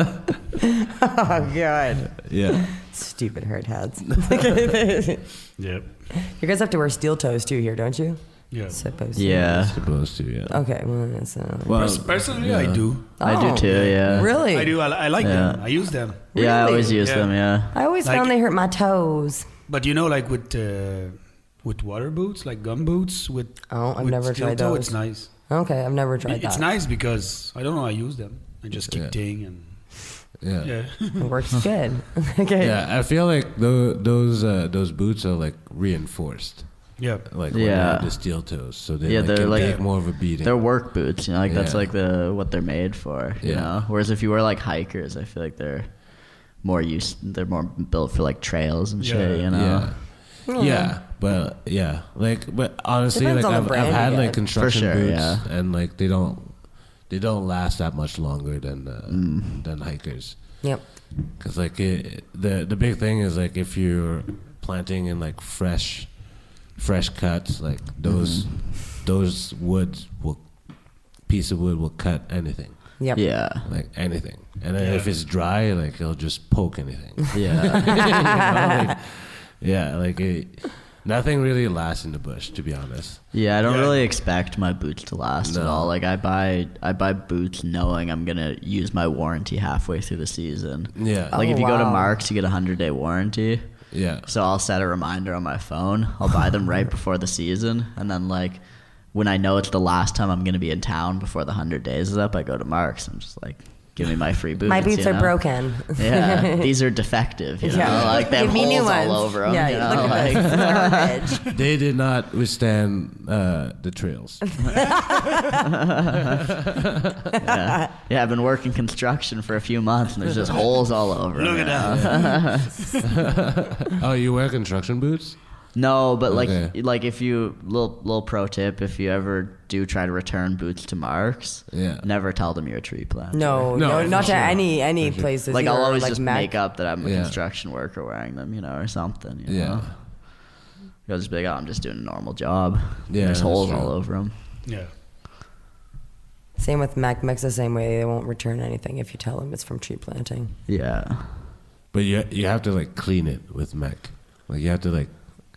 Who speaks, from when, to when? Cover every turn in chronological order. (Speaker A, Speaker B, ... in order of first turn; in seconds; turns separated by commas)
Speaker A: 1.0-2.2, Speaker B: 2.2-2.9, Speaker A: 2.7-5.5, Speaker B: 4.1-4.5, Speaker C: 5.6-6.1, Speaker A: 6.3-9.7, Speaker C: 8.5-8.8, Speaker D: 9.1-9.8, Speaker B: 9.5-10.6, Speaker A: 10.5-12.1, Speaker B: 11.7-12.9, Speaker C: 11.7-16.2, Speaker A: 13.2-14.8, Speaker D: 13.2-14.3, Speaker B: 14.0-14.3, Speaker D: 15.2-15.8, Speaker A: 16.3-17.0, Speaker D: 16.3-17.8, Speaker C: 16.9-17.3, Speaker A: 17.7-19.4, Speaker C: 18.0-18.3, Speaker C: 19.7-25.3, Speaker A: 23.7-26.7, Speaker C: 26.2-31.6, Speaker B: 30.4-31.0, Speaker A: 31.2-32.8, Speaker B: 32.6-41.9, Speaker C: 37.0-37.2, Speaker D: 37.5-38.5, Speaker D: 39.0-50.0, Speaker C: 39.5-39.8, Speaker B: 43.4-43.8, Speaker C: 49.0-49.5, Speaker B: 49.5-83.2, Speaker A: 50.5-51.0, Speaker A: 53.1-54.4, Speaker D: 54.5-55.5, Speaker D: 59.1-59.6, Speaker A: 60.6-60.9, Speaker D: 68.0-68.6, Speaker A: 73.0-73.2, Speaker D: 73.1-73.7, Speaker C: 74.8-75.1, Speaker D: 77.3-78.4, Speaker D: 83.3-111.3, Speaker C: 83.6-84.1, Speaker B: 85.4-85.9, Speaker B: 90.9-91.4, Speaker A: 91.3-92.1, Speaker B: 93.9-94.3, Speaker A: 104.6-106.6, Speaker A: 107.6-111.5, Speaker B: 107.7-108.6, Speaker B: 109.8-110.6, Speaker B: 111.5-115.1, Speaker A: 114.8-115.2, Speaker D: 117.4-122.7, Speaker C: 121.3-122.9, Speaker B: 123.2-125.7, Speaker D: 125.7-133.9, Speaker B: 126.3-126.7, Speaker B: 131.7-132.1, Speaker A: 133.3-136.6, Speaker B: 133.7-135.3, Speaker C: 133.8-134.6, Speaker D: 135.5-144.3, Speaker B: 137.0-137.4, Speaker B: 139.5-139.9, Speaker B: 143.1-144.0, Speaker C: 144.6-144.9, Speaker A: 146.6-150.5, Speaker D: 150.7-151.5, Speaker B: 151.9-155.1